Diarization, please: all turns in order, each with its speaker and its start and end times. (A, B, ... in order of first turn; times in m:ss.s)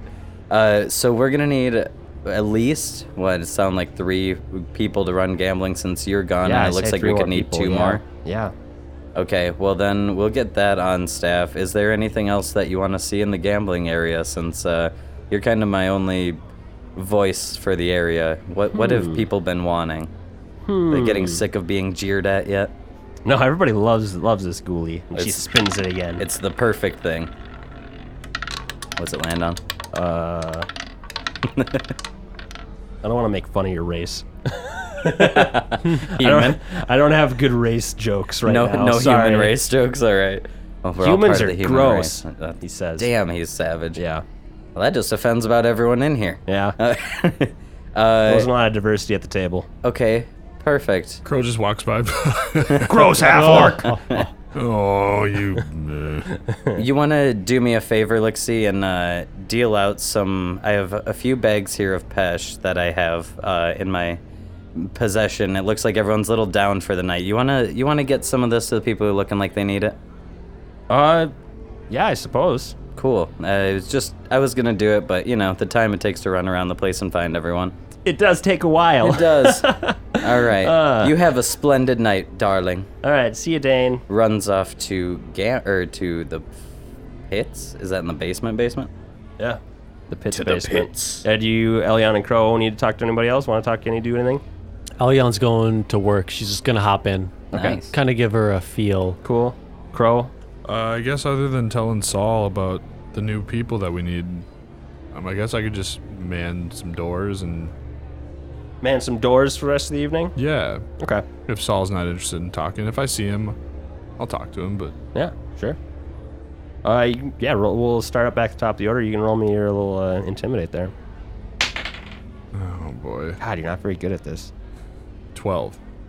0:00.5-0:08.0 A
0:06.4-0:08.5 B
0:09.2-0:16.4 A
0:17.0-0:20.1 A
0:18.7-0:19.2 B
0:20.7-0:21.4 B
0:20.9-0:22.7 A
0:23.2-0:26.2 B
0:25.2-0:25.4 A
0:26.2-0:27.3 A
0:29.0-0:29.6 A
0:29.9-0:30.7 B
0:31.4-0:31.9 A
0:33.0-0:39.6 B
0:35.0-0:36.6 A
0:38.4-0:44.0 A
0:41.0-0:43.1 B
0:44.0-0:44.2 B
0:44.8-0:48.5 A
0:46.5-0:46.8 B
0:48.3-0:49.7 B
0:49.8-0:51.2 A
0:51.2-0:53.2 C
0:52.7-0:54.3 A
0:52.8-0:53.9 B
0:53.2-0:54.0 D
0:54.5-0:56.4 C
0:56.5-0:56.8 B
0:56.7-1:04.2 A
1:04.8-1:10.0 A
1:10.9-1:11.3 B
1:11.9-1:12.8 B
1:13.0-1:17.7 A
1:18.0-1:21.2 B
1:19.0-1:19.7 A
1:20.2-1:22.9 A
1:23.0-1:24.0 B
1:24.1-1:26.6 A
1:27.3-1:28.9 A
1:29.4-1:34.4 B
1:30.3-1:31.2 A
1:35.0-1:39.2 D
1:37.5-1:38.0 A
1:37.5-1:37.8 B
1:39.2-1:40.3 B
1:40.6-1:44.5 C
1:45.1-1:47.7 C
1:48.8-1:50.4 B
1:50.4-1:50.8 C
1:51.0-1:51.3 B
1:51.5-1:53.6 C
1:54.2-1:55.0 C
1:55.2-1:55.8 B
1:56.8-2:00.9 B
2:02.5-2:03.4 C
2:03.4-2:04.5 B
2:05.3-2:05.8 C